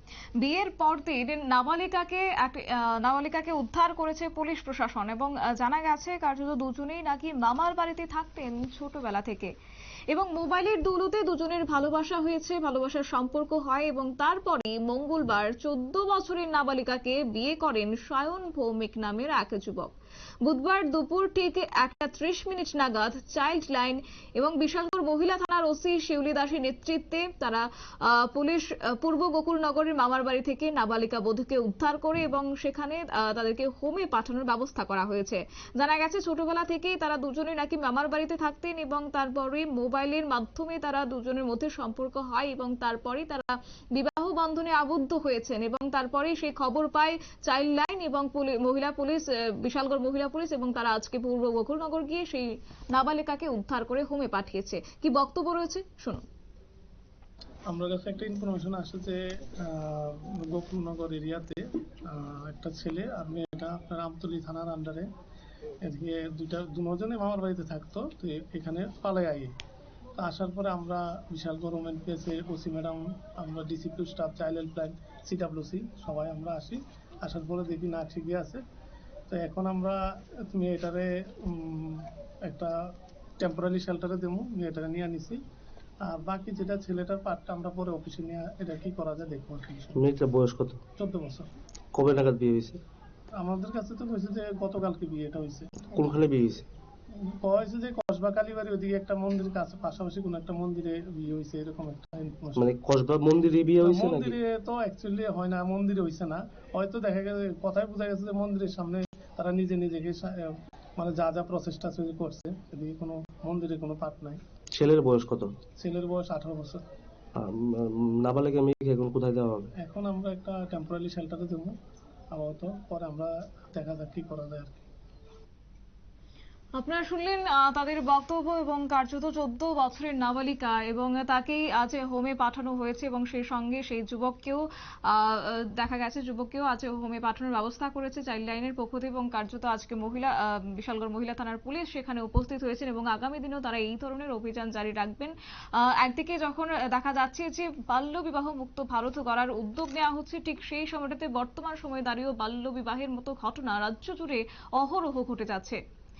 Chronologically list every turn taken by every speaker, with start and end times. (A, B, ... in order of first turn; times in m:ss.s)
0:00.4-0:09.5 A
0:10.1-0:19.9 A
0:20.4-0:56.2 A
0:57.7-1:05.1 B
1:05.8-1:09.5 B
1:10.2-1:18.6 B
1:19.3-1:22.7 B
1:23.4-1:25.4 B
1:26.0-1:30.0 B
1:30.0-1:30.8 C
1:31.0-1:31.5 B
1:31.9-1:32.8 C
1:33.4-1:36.2 B
1:36.0-1:36.6 C
1:37.2-1:42.6 B
1:42.6-1:44.4 C
1:43.8-1:54.4 B
1:54.7-1:55.5 C
1:55.8-1:56.8 B
1:57.4-1:59.7 C
1:59.8-2:01.7 B
2:02.3-2:04.8 B
2:06.7-2:35.8 A